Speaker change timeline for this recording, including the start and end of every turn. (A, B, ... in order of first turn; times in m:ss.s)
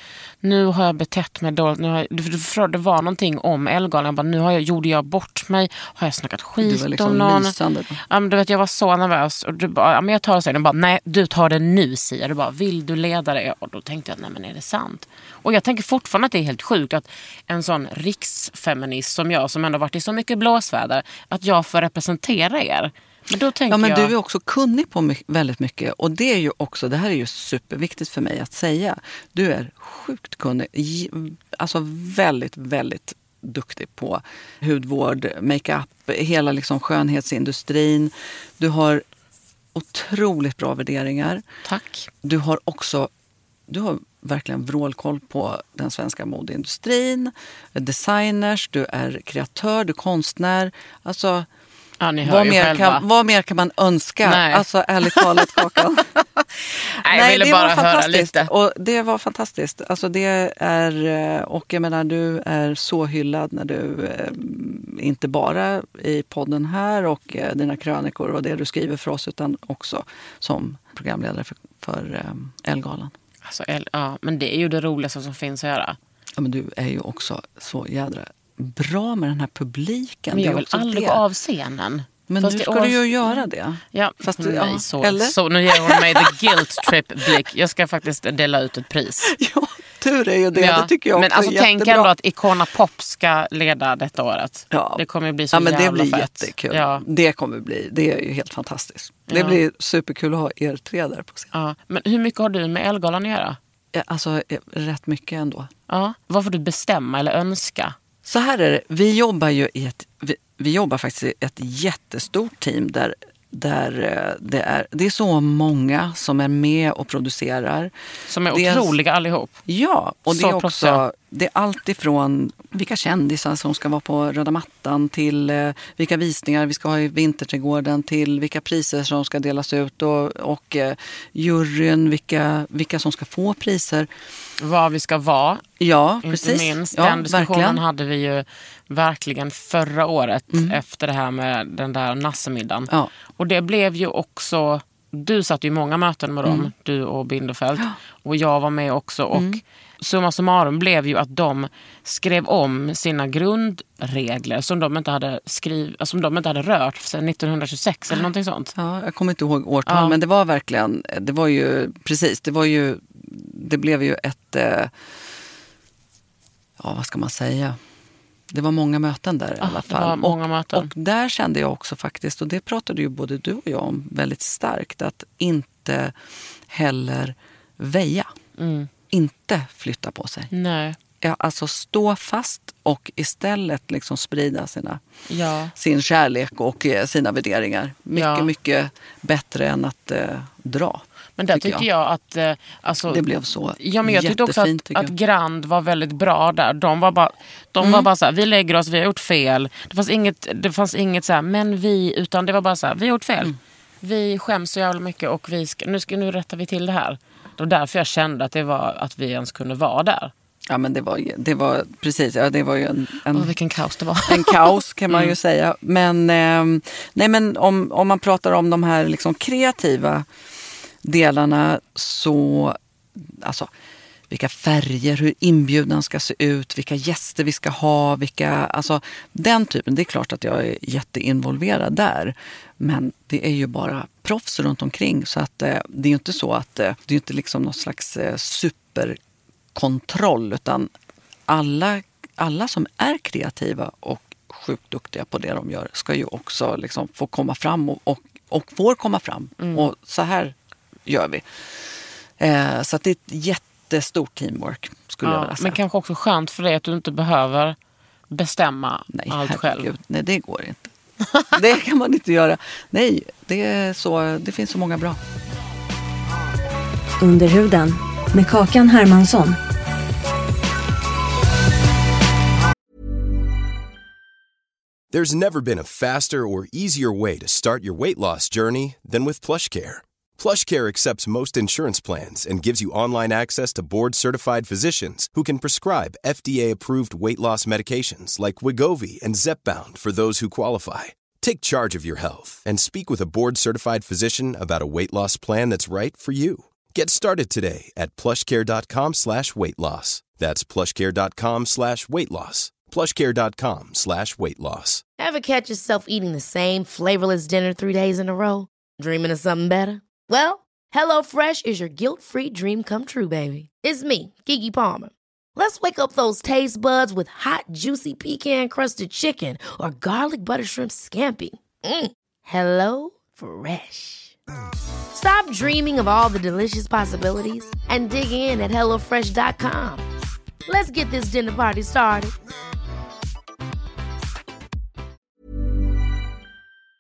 0:00.4-0:07.6 A
0:06.6-0:08.0 B
0:08.1-0:24.1 A
0:23.7-0:39.0 B
0:39.7-0:41.4 B
0:41.6-0:42.1 A
0:42.2-0:43.1 B
0:43.7-0:51.5 B
0:52.0-0:53.0 A
0:52.2-0:56.2 B
0:54.2-0:55.7 A
0:56.7-0:58.5 A
0:56.9-1:13.1 B
1:13.4-1:16.0 A
1:16.4-1:21.2 B
1:20.3-1:23.0 A
1:22.3-1:27.4 B
1:23.9-1:29.3 A
1:29.2-1:32.1 B
1:30.5-1:37.0 A
1:34.7-1:41.5 B
1:39.3-1:39.6 A
1:41.5-1:43.6 A
1:43.9-1:45.7 B
1:45.9-1:48.0 A
1:48.2-1:57.9 B
1:58.3-1:59.6 A
1:58.5-1:58.9 B
1:59.7-2:14.1 B
2:00.3-2:01.0 A
2:14.6-2:15.6 A
2:15.8-2:17.8 B
2:16.2-2:38.7 A
2:20.5-2:20.8 B
2:26.4-2:26.7 B
2:29.3-2:29.6 B
2:38.1-2:45.0 B
2:39.9-2:40.2 A
2:46.8-2:47.8 B
2:48.5-2:56.2 B
2:49.6-2:50.9 A
2:56.7-2:58.3 B
2:58.6-2:58.9 A
2:59.1-3:00.5 B
3:00.5-3:01.0 A
3:01.2-3:05.0 B
3:05.3-3:05.7 A
3:05.8-3:11.9 B
3:08.1-3:08.5 A
3:11.4-3:13.2 A
3:13.1-3:15.1 B
3:13.8-3:30.3 A
3:17.8-3:18.1 B
3:30.7-3:33.5 B
3:33.3-3:35.4 A
3:34.3-3:40.3 B
3:41.0-3:43.7 B
3:44.3-3:59.2 B
3:59.7-4:00.9 B
4:01.5-4:10.6 B
4:09.6-4:09.9 A
4:11.1-4:15.8 B
4:15.2-4:17.8 A
4:18.3-4:19.9 A
4:19.1-4:20.9 B
4:21.5-4:25.2 B
4:27.2-4:29.6 C
4:35.1-5:05.0 D
5:05.2-5:24.4 E
5:25.1-5:30.0 E
5:30.7-5:32.3 E